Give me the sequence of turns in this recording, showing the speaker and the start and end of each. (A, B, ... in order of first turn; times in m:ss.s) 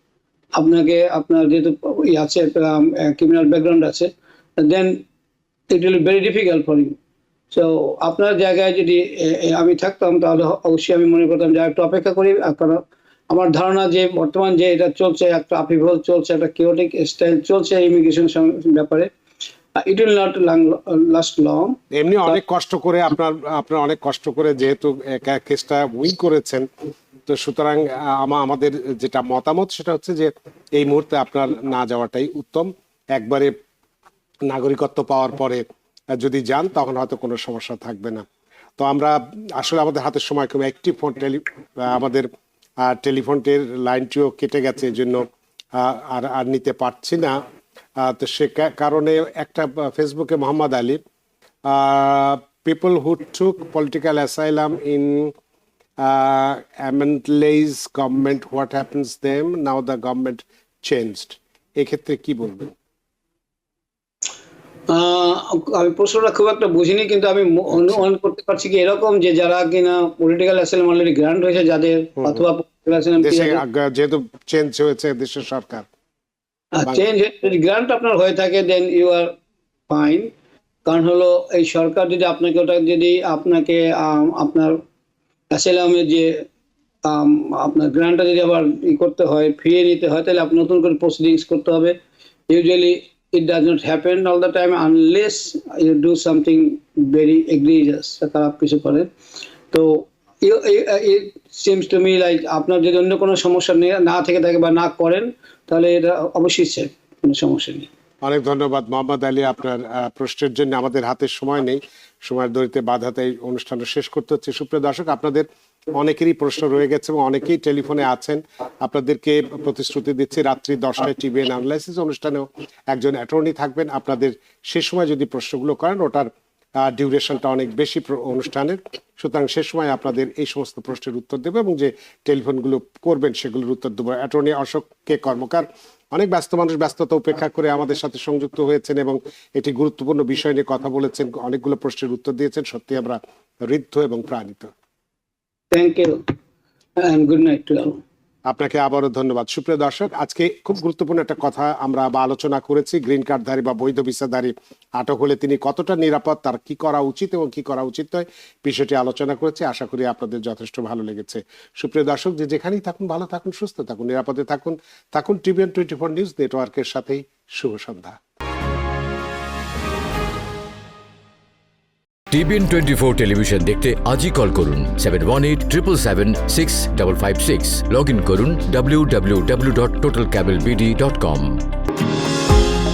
0:00.6-0:05.0 A
0:05.7-0:07.0 A
0:07.5-0:19.1 A
0:19.8-0:21.8 A
0:21.9-0:26.7 B
0:27.3-0:33.5 B
0:34.5-0:35.6 B
0:36.1-0:38.2 B
0:38.8-0:42.3 B
0:42.8-0:47.4 B
0:48.0-0:51.0 B
0:51.7-0:55.3 B
0:56.0-1:02.7 B
1:04.9-1:13.6 A
1:07.7-1:08.1 B
1:13.2-1:15.8 B
1:16.7-1:19.3 A
1:19.9-1:20.3 A
1:20.8-1:24.8 A
1:25.5-1:26.4 A
1:27.0-1:32.0 A
1:32.5-1:39.1 A
1:39.7-1:47.9 A
1:48.2-2:06.3 B
2:06.8-2:24.7 B
2:25.7-2:26.2 A
2:27.0-2:28.0 A
2:28.5-2:48.2 B
2:52.3-3:01.6 C